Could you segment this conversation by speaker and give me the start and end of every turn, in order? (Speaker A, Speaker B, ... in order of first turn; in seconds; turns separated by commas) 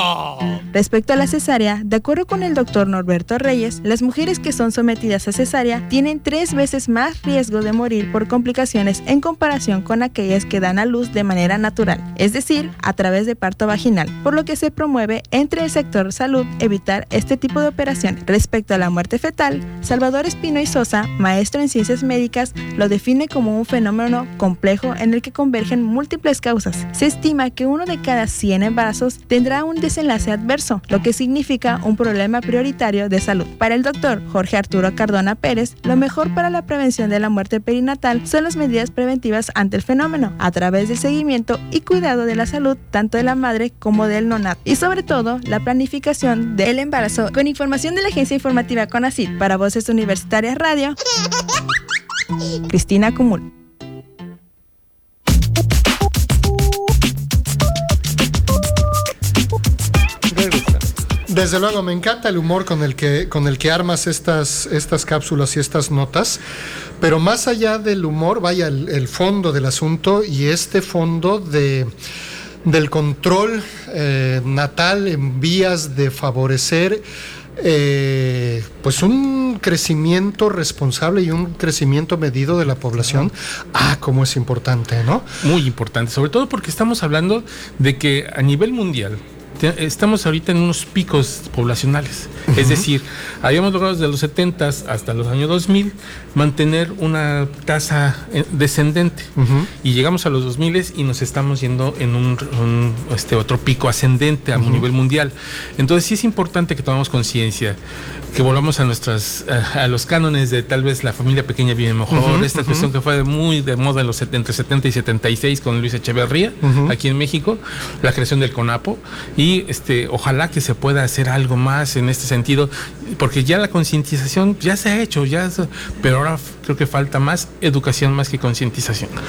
Speaker A: 0.7-51.0, Speaker A: 52.7-53.5, Speaker B: 60.3-60.8, Speaker C: 61.3-66.4, Speaker C: 67.0-71.9, Speaker C: 72.6-77.0, Speaker C: 77.6-85.3, Speaker B: 85.4-99.3, Speaker C: 92.5-92.9, Speaker C: 99.4-99.7, Speaker B: 99.8-107.8, Speaker C: 104.6-104.8, Speaker B: 108.3-129.2, Speaker C: 112.1-112.9, Speaker C: 116.6-117.0